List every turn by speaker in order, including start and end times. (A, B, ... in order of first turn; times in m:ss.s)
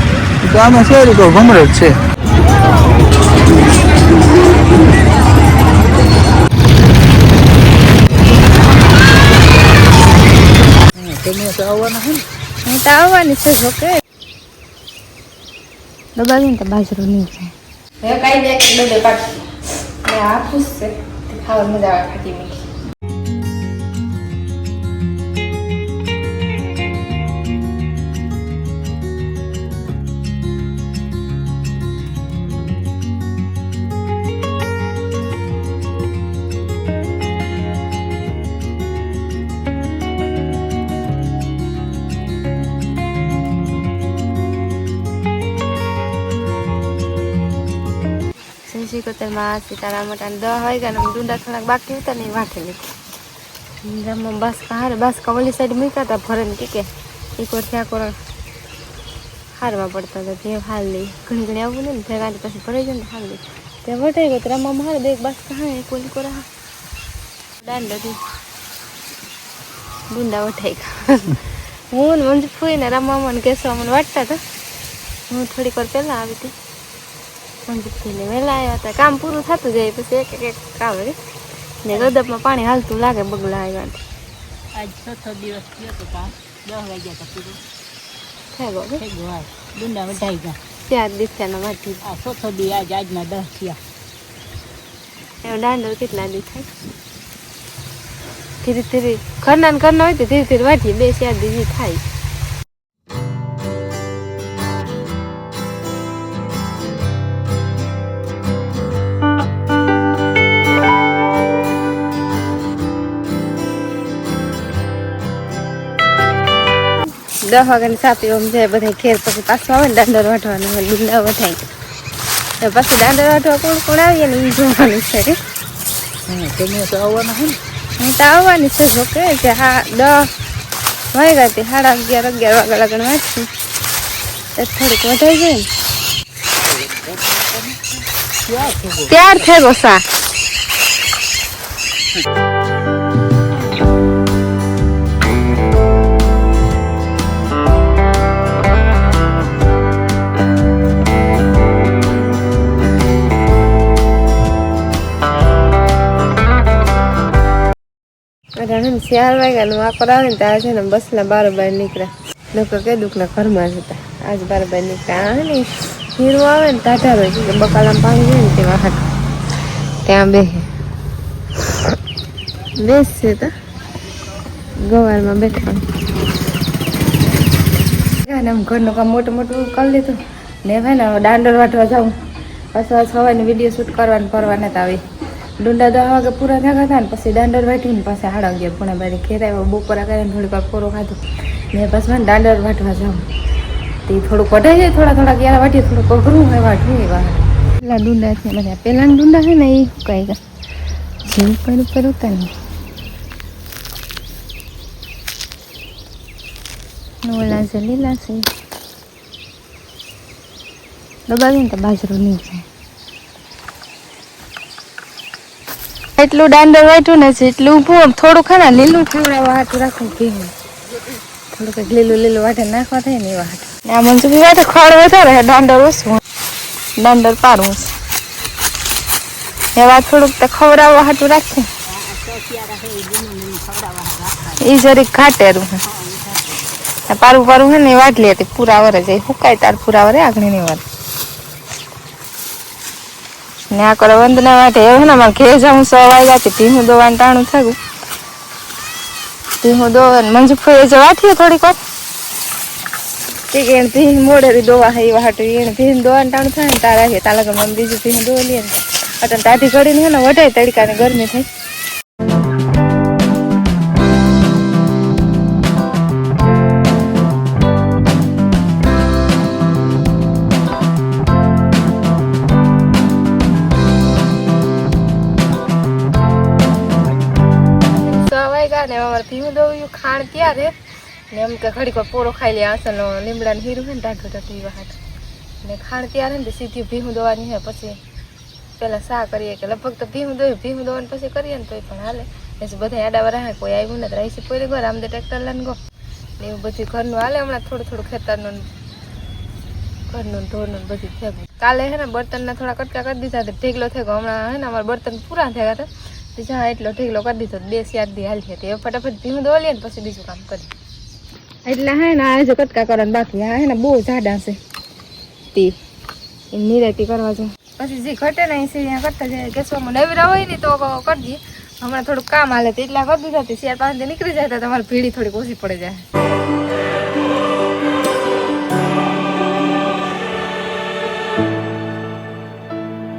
0:00.4-0:01.9 A
0:11.0-0:12.2 A
0:12.6-0:14.0 B
0:16.2-0:19.5 B
0:20.0-0:22.7 B
0:48.7-0:52.9 B
0:53.8-0:58.2 B
0:59.6-1:06.5 B
1:07.6-1:08.2 B
1:10.1-1:14.4 B
1:15.3-1:16.5 B
1:17.7-1:21.2 B
1:21.8-1:24.0 B
1:24.7-1:27.6 C
1:28.5-1:29.0 B
1:29.0-1:30.6 C
1:30.8-1:32.0 B
1:32.0-1:33.8 C
1:35.4-1:36.7 B
1:38.6-1:42.0 B
1:57.4-2:01.7 B
2:02.6-2:05.4 B
2:06.3-2:07.6 A
2:08.0-2:10.3 B
2:11.1-2:13.5 B
2:14.6-2:15.7 B
2:16.9-2:17.8 C
2:18.5-2:19.1 C
2:19.1-2:20.0 B
2:38.6-2:49.1 B
2:50.0-2:50.7 B
2:52.8-2:53.5 B
2:54.8-2:55.8 B
2:58.2-3:02.1 B
3:02.7-3:05.0 B
3:05.6-3:11.2 B
3:11.7-3:13.3 B
3:14.0-3:20.4 B
3:21.2-3:22.5 B
3:27.2-3:28.4 B
3:31.3-3:32.6 B
3:36.2-3:40.5 B
3:41.5-3:46.2 B
3:47.0-3:47.9 B
3:49.7-3:51.7 B
3:51.9-3:54.6 C
3:54.6-3:55.8 B
3:55.9-3:56.7 C
3:57.0-4:00.8 B
4:03.7-4:07.8 B
4:09.6-4:11.8 B
4:13.5-4:21.5 B
4:38.0-4:40.7 B
4:41.3-4:45.0 B
4:45.6-4:48.0 B
4:48.8-4:55.8 B
4:56.4-4:58.7 B
5:00.1-5:10.7 B
5:11.7-5:14.6 B
5:16.5-5:26.0 B